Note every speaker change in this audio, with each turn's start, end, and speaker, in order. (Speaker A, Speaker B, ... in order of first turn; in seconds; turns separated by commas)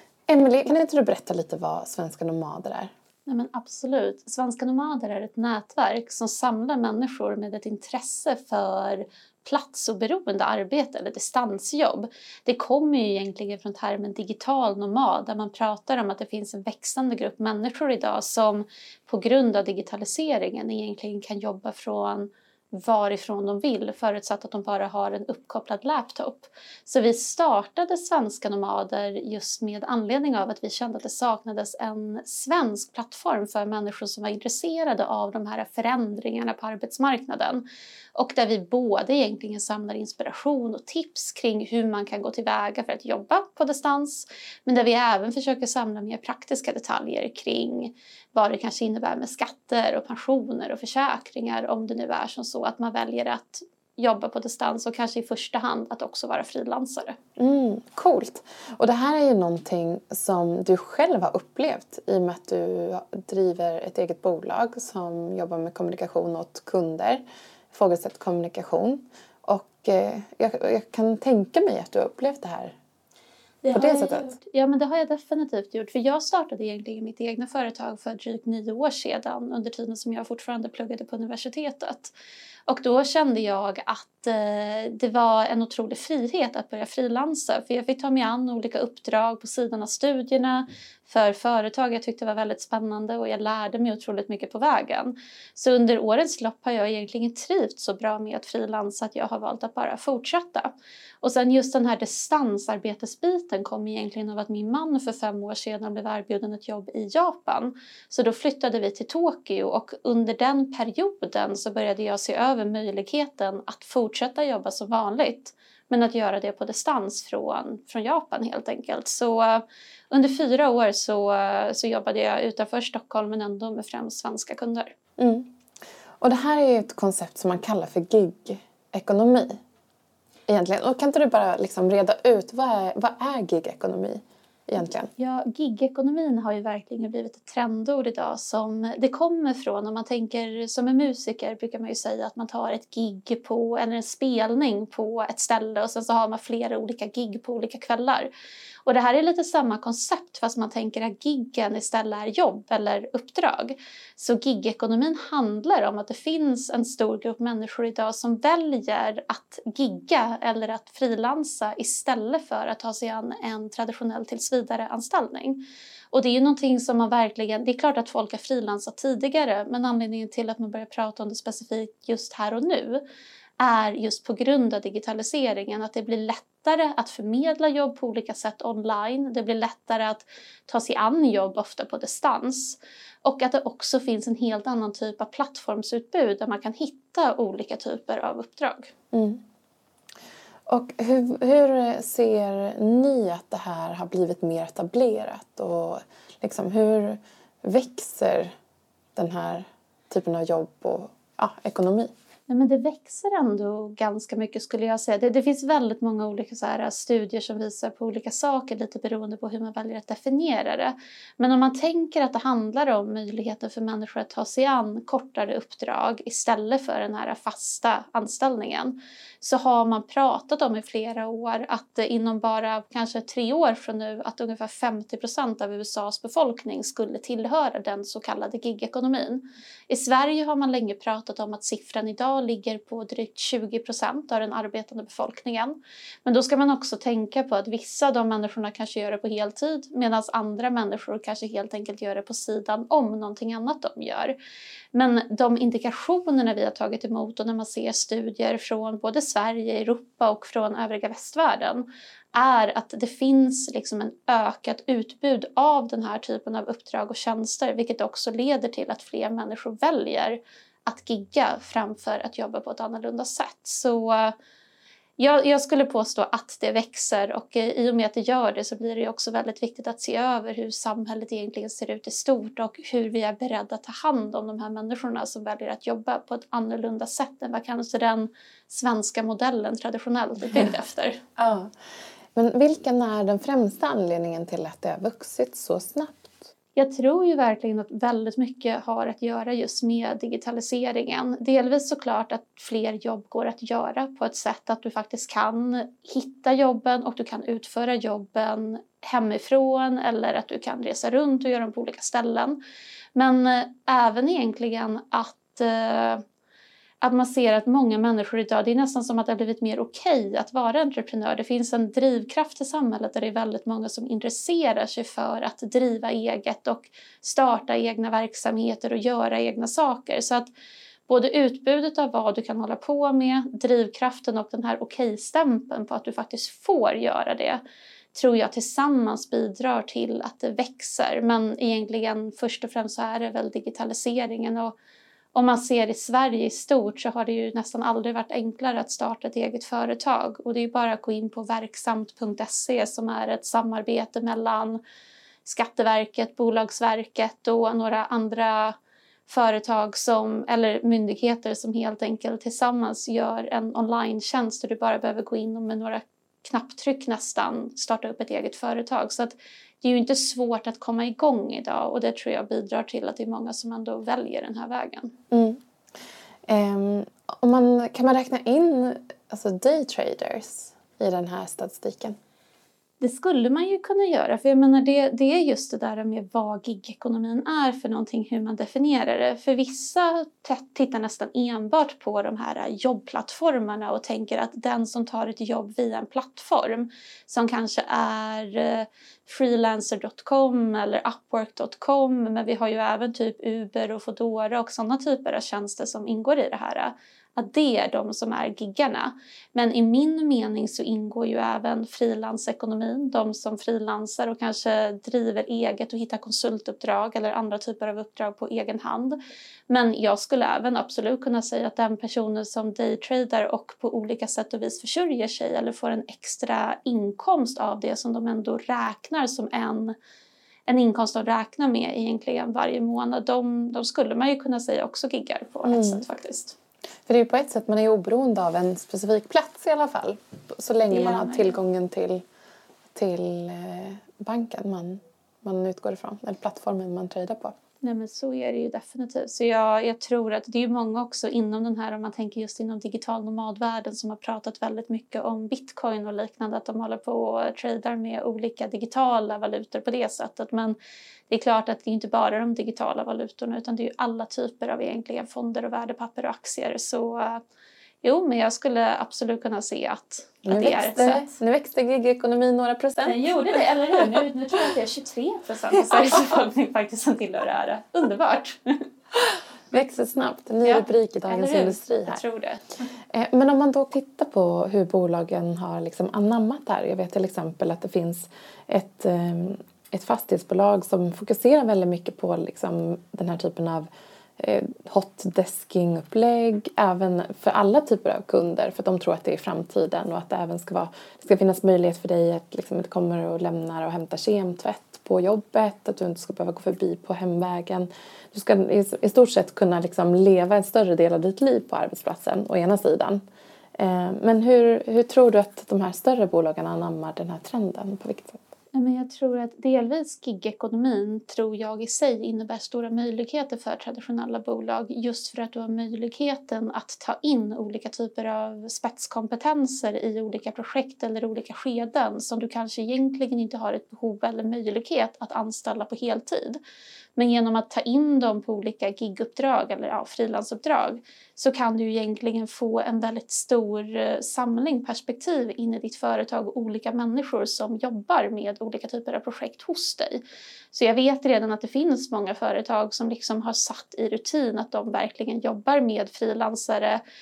Speaker A: 0.3-2.9, Speaker B: 3.3-57.2, Speaker A: 57.4-72.8, Speaker B: 73.6-82.1, Speaker A: 73.7-74.3, Speaker B: 82.7-124.9, Speaker A: 125.2-125.5, Speaker A: 126.2-129.6, Speaker A: 130.5-135.1, Speaker B: 135.2-148.3, Speaker B: 148.8-173.0, Speaker B: 173.6-188.9, Speaker A: 189.1-189.4, Speaker A: 190.7-198.5, Speaker A: 199.2-202.1, Speaker B: 202.5-244.3, Speaker B: 244.9-264.4, Speaker B: 265.2-281.2, Speaker A: 281.4-281.7, Speaker A: 282.3-286.5, Speaker B: 286.8-302.6, Speaker B: 303.1-306.2, Speaker B: 307.0-320.5, Speaker B: 321.1-327.6, Speaker B: 328.1-334.8, Speaker B: 335.3-344.8, Speaker B: 345.4-365.1, Speaker A: 365.3-365.6, Speaker A: 366.5-372.2, Speaker B: 373.0-409.2, Speaker B: 409.7-419.9, Speaker B: 420.7-426.6, Speaker A: 425.6-426.0, Speaker A: 427.1-432.2, Speaker B: 430.9-431.6, Speaker A: 432.9-437.6, Speaker B: 437.8-450.8, Speaker B: 451.3-457.4, Speaker B: 458.0-461.3, Speaker A: 460.4-463.3, Speaker B: 463.0-468.9, Speaker A: 469.7-472.2, Speaker B: 470.6-472.9, Speaker A: 473.1-483.9, Speaker A: 484.4-503.2, Speaker A: 503.8-508.4, Speaker B: 508.7-526.6, Speaker B: 527.2-540.2, Speaker B: 540.7-547.0